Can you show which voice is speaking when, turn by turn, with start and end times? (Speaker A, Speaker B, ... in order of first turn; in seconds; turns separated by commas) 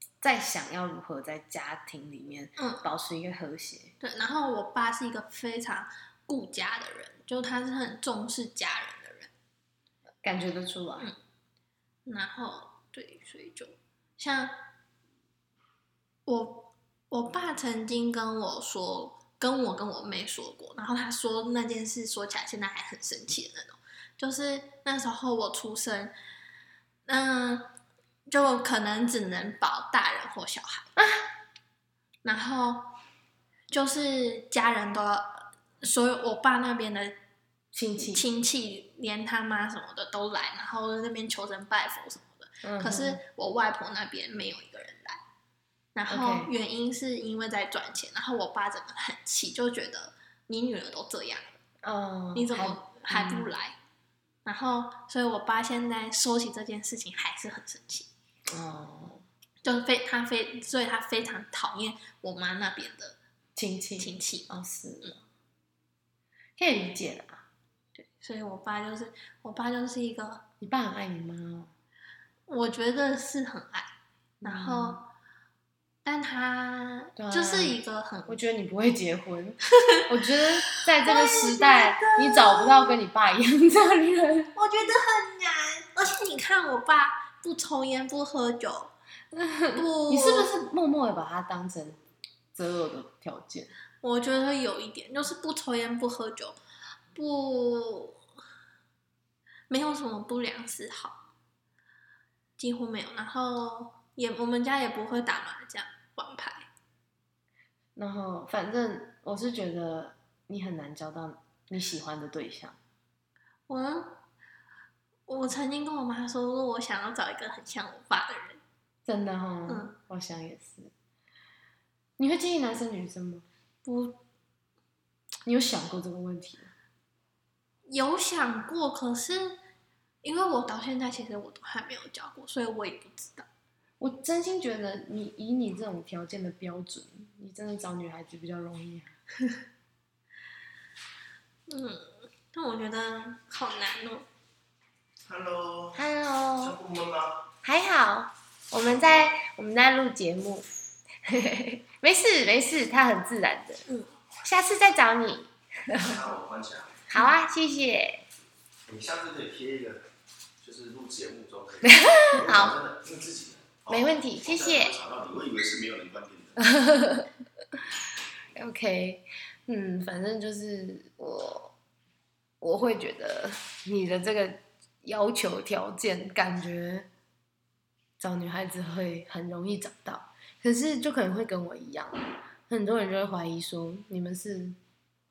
Speaker A: 0.2-4.0, Speaker B: 2.6-2.9, Speaker B: 4.0-9.3, Speaker A: 10.2-11.1, Speaker B: 12.1-14.6, Speaker B: 16.3-26.1, Speaker B: 27.1-27.7, Speaker B: 28.3-30.9, Speaker A: 31.0-31.3, Speaker B: 32.2-32.9, Speaker B: 33.7-37.2, Speaker A: 37.7-38.3, Speaker B: 38.0-45.2, Speaker A: 42.6-43.2, Speaker B: 46.0-51.6, Speaker A: 46.1-46.5, Speaker A: 51.8-53.5, Speaker B: 52.4-53.8, Speaker B: 54.5-58.1, Speaker A: 58.5-59.2, Speaker B: 59.6-63.2, Speaker A: 63.6-65.2, Speaker B: 64.0-65.2, Speaker A: 66.6-67.5, Speaker B: 68.0-70.4, Speaker A: 70.6-71.7, Speaker B: 72.5-75.1, Speaker A: 74.4-75.0, Speaker B: 76.0-78.4, Speaker A: 77.2-77.8, Speaker A: 78.3-84.5, Speaker B: 81.0-83.0, Speaker B: 84.5-88.9, Speaker A: 89.3-92.0, Speaker B: 89.7-90.5, Speaker A: 92.5-93.7, Speaker B: 94.0-96.6, Speaker B: 97.2-98.2, Speaker B: 99.7-101.2, Speaker B: 102.6-106.7, Speaker A: 108.0-112.8, Speaker B: 113.7-114.2, Speaker B: 115.3-118.6, Speaker A: 119.1-120.9, Speaker B: 119.7-120.0, Speaker A: 122.2-123.5, Speaker B: 123.8-124.2, Speaker A: 125.5-126.7, Speaker B: 127.9-129.6, Speaker B: 130.2-133.5, Speaker A: 134.0-139.1, Speaker B: 141.7-144.2, Speaker C: 145.3-146.1, Speaker A: 145.9-146.8, Speaker C: 146.6-147.5, Speaker A: 147.6-150.7, Speaker A: 151.2-153.8, Speaker B: 153.9-154.1, Speaker A: 154.4-156.2, Speaker C: 155.9-157.0, Speaker A: 157.1-158.2, Speaker C: 158.9-160.0, Speaker C: 160.6-166.7, Speaker A: 161.8-162.8, Speaker A: 163.9-165.0, Speaker A: 166.6-167.3, Speaker A: 168.6-171.7, Speaker A: 172.6-177.1, Speaker A: 178.2-184.8